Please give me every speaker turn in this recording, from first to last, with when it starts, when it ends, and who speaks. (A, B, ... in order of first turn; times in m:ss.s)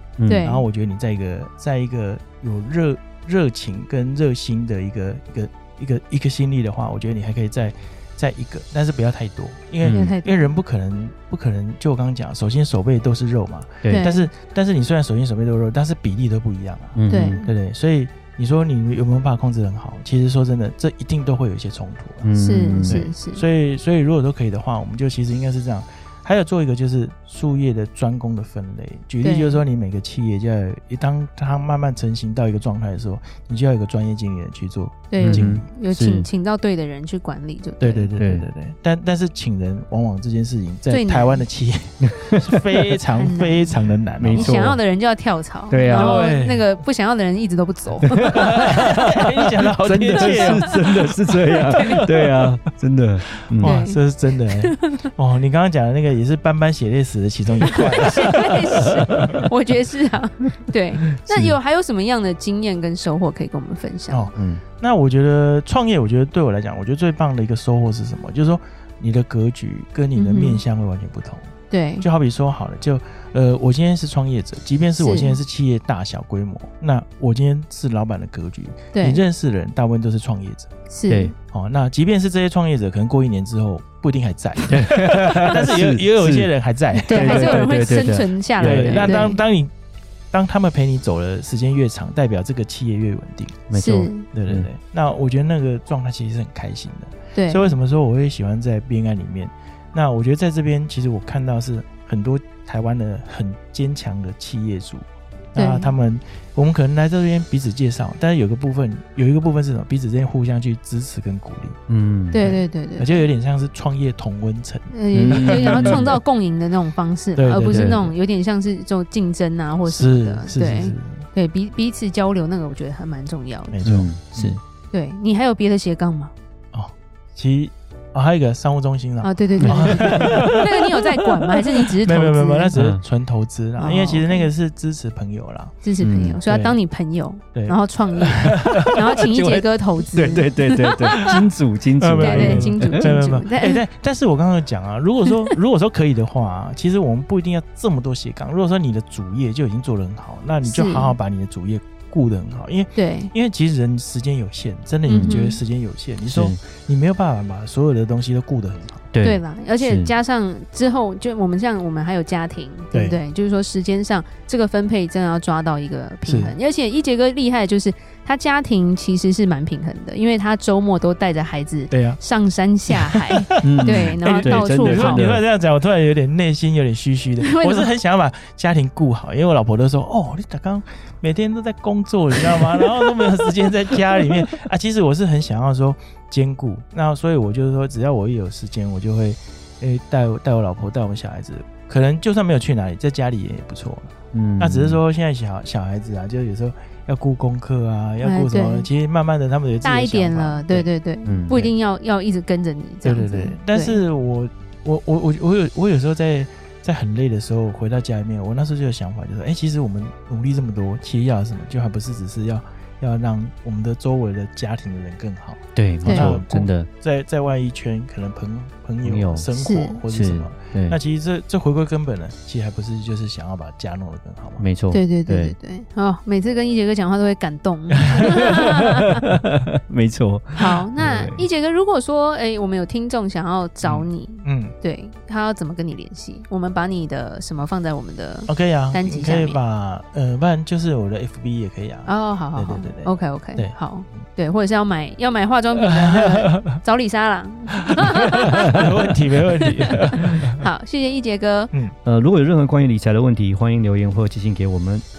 0:00.3-0:00.7 A
0:00.4-0:35.7 B
0:09.8-0:10.2 C
0:09.8-0:10.5 A
0:13.9-0:14.3 A
0:17.0-0:17.4 C
0:17.1-0:17.5 A
0:22.2-0:23.1 C
0:22.4-0:23.4 A
0:29.2-0:29.6 A
0:35.1-0:38.1 A
0:35.2-0:36.3 C
0:37.8-0:44.6 B
0:38.2-0:38.5 C
0:40.9-0:41.4 A
0:42.0-0:42.6 C
0:43.2-0:43.8 A
0:44.2-0:44.8 C
0:44.3-0:48.8 A
0:45.7-0:46.2 C
0:45.9-0:46.7 B
0:48.0-0:49.2 C
0:48.2-0:51.2 B
0:49.8-0:53.8 C
0:50.2-0:52.1 A
0:51.7-0:52.3 B
0:53.5-0:59.4 B
0:53.6-0:54.9 A
0:57.6-0:58.2 C
0:57.7-1:04.3 A
0:59.2-0:59.4 C
1:01.3-1:01.6 C
1:04.1-1:20.7 B
1:04.4-1:04.6 C
1:10.2-1:10.6 A
1:11.7-1:12.1 A
1:15.0-1:15.4 A
1:18.9-1:19.2 A
1:20.9-1:21.3 A
1:21.5-1:27.9 B
1:24.7-1:26.5 C
1:27.0-1:29.4 A
1:27.1-1:29.2 C
1:28.6-1:29.7 B
1:30.3-1:33.7 B
1:33.7-1:34.7 C
1:33.7-1:34.3 A
1:34.3-1:51.8 B
1:37.4-1:37.7 A
1:45.6-1:45.9 A
1:51.9-1:52.4 C
1:52.3-1:53.3 A
1:52.4-1:56.2 B
1:54.9-2:03.8 A
1:55.1-1:56.1 C
1:57.4-1:58.1 B
1:57.6-1:58.0 C
1:59.8-2:01.3 B
2:03.7-2:04.6 B
2:03.8-2:04.6 C
2:04.9-2:06.3 A
2:06.7-2:15.8 B
2:09.2-2:12.8 A
2:09.6-2:10.5 C
2:12.8-2:13.0 C
2:13.8-2:14.5 A
2:15.8-2:21.3 A
2:16.0-2:16.4 C
2:16.5-2:16.8 B
2:17.5-2:19.1 B
2:18.8-2:23.1 C
2:22.0-2:39.1 B
2:22.2-2:23.8 A
2:25.2-2:25.5 A
2:30.6-2:31.2 A
2:33.0-2:33.3 A
2:35.1-2:35.4 C
2:35.1-2:35.6 A
2:36.3-2:36.6 C
2:39.1-2:40.1 C
2:39.2-2:55.3 A
2:42.9-2:43.2 B
2:46.2-2:46.5 B
2:51.9-2:52.2 B
2:52.9-3:20.9 B
2:53.6-2:55.4 C
2:57.4-2:57.9 A
3:14.3-3:15.0 C
3:18.2-3:18.9 A
3:19.8-3:24.0 A
3:21.2-3:21.6 C
3:23.0-3:44.6 B
3:35.8-3:36.9 C
3:36.0-3:36.4 A
3:39.0-3:39.5 C
3:39.6-3:40.0 A
3:40.1-3:41.0 C
3:44.6-3:45.5 C
3:44.9-3:49.2 A
3:48.0-3:48.4 B
3:48.4-3:51.5 C
3:50.6-3:59.6 A
3:53.8-3:54.7 B
3:58.5-4:04.2 B
4:02.1-4:08.8 A
4:05.8-4:06.8 B
4:08.7-4:10.6 B
4:09.9-4:11.7 A
4:12.0-4:15.0 C